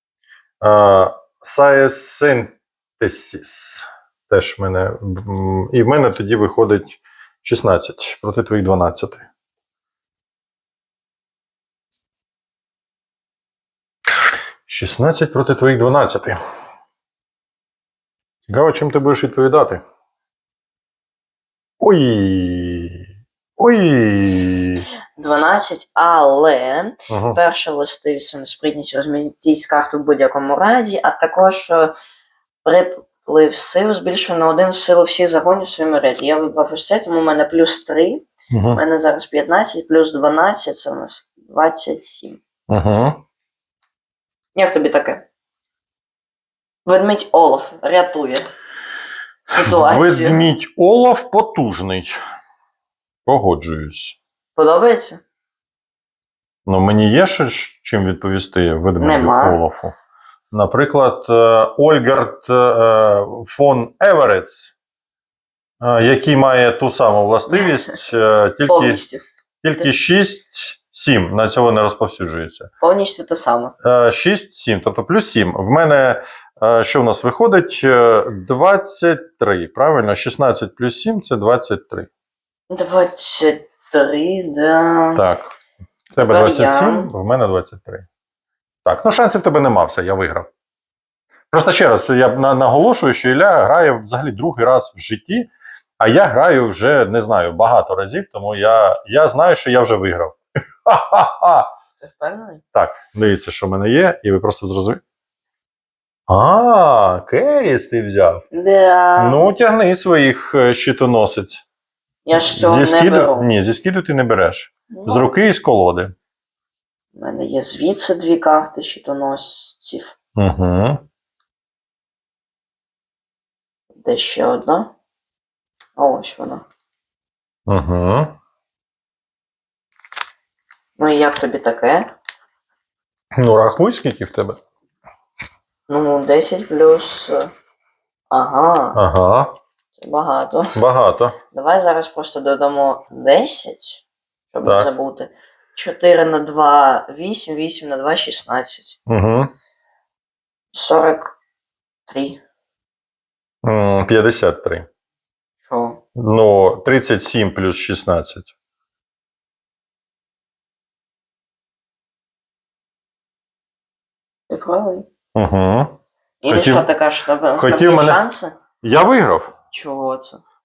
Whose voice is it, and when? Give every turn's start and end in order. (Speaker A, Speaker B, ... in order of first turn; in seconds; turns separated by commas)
Speaker A: 0.6-9.2, Speaker A: 14.7-16.4, Speaker A: 18.5-19.8, Speaker A: 21.8-23.0, Speaker A: 23.6-24.8, Speaker B: 25.1-31.9, Speaker A: 27.1-27.4, Speaker B: 32.6-42.4, Speaker A: 38.5-38.8, Speaker A: 42.7-43.2, Speaker B: 44.5-45.2, Speaker B: 46.9-48.5, Speaker B: 49.5-50.5, Speaker A: 49.5-52.2, Speaker A: 53.2-54.2, Speaker B: 54.5-55.2, Speaker A: 56.6-59.9, Speaker B: 59.0-59.6, Speaker A: 60.5-64.7, Speaker A: 65.8-69.0, Speaker B: 68.7-69.2, Speaker A: 69.6-72.7, Speaker B: 72.8-73.7, Speaker A: 73.8-82.1, Speaker B: 82.7-85.2, Speaker A: 85.2-85.5, Speaker B: 86.1-87.1, Speaker A: 86.2-88.0, Speaker A: 88.8-90.5, Speaker A: 91.5-101.7, Speaker B: 102.0-102.6, Speaker A: 102.7-105.0, Speaker A: 106.3-108.4, Speaker B: 108.5-109.4, Speaker A: 109.2-111.6, Speaker B: 112.2-113.5, Speaker A: 112.3-116.1, Speaker B: 114.9-115.2, Speaker B: 117.1-120.1, Speaker A: 120.3-121.0, Speaker B: 124.0-124.9, Speaker B: 126.0-126.7, Speaker A: 127.7-128.3, Speaker B: 131.0-132.1, Speaker A: 133.3-134.6, Speaker B: 135.9-137.5, Speaker B: 138.3-139.0, Speaker A: 138.9-139.5, Speaker B: 140.0-140.8, Speaker A: 140.7-141.4, Speaker B: 141.5-149.0, Speaker A: 149.1-149.5, Speaker B: 150.7-151.4, Speaker B: 152.1-152.4, Speaker A: 153.6-154.8, Speaker B: 155.7-156.0, Speaker A: 156.1-158.5, Speaker B: 164.5-165.1, Speaker A: 165.3-165.9, Speaker B: 166.4-168.6, Speaker A: 166.5-166.9, Speaker A: 167.6-168.2, Speaker A: 168.8-169.5, Speaker B: 169.7-170.4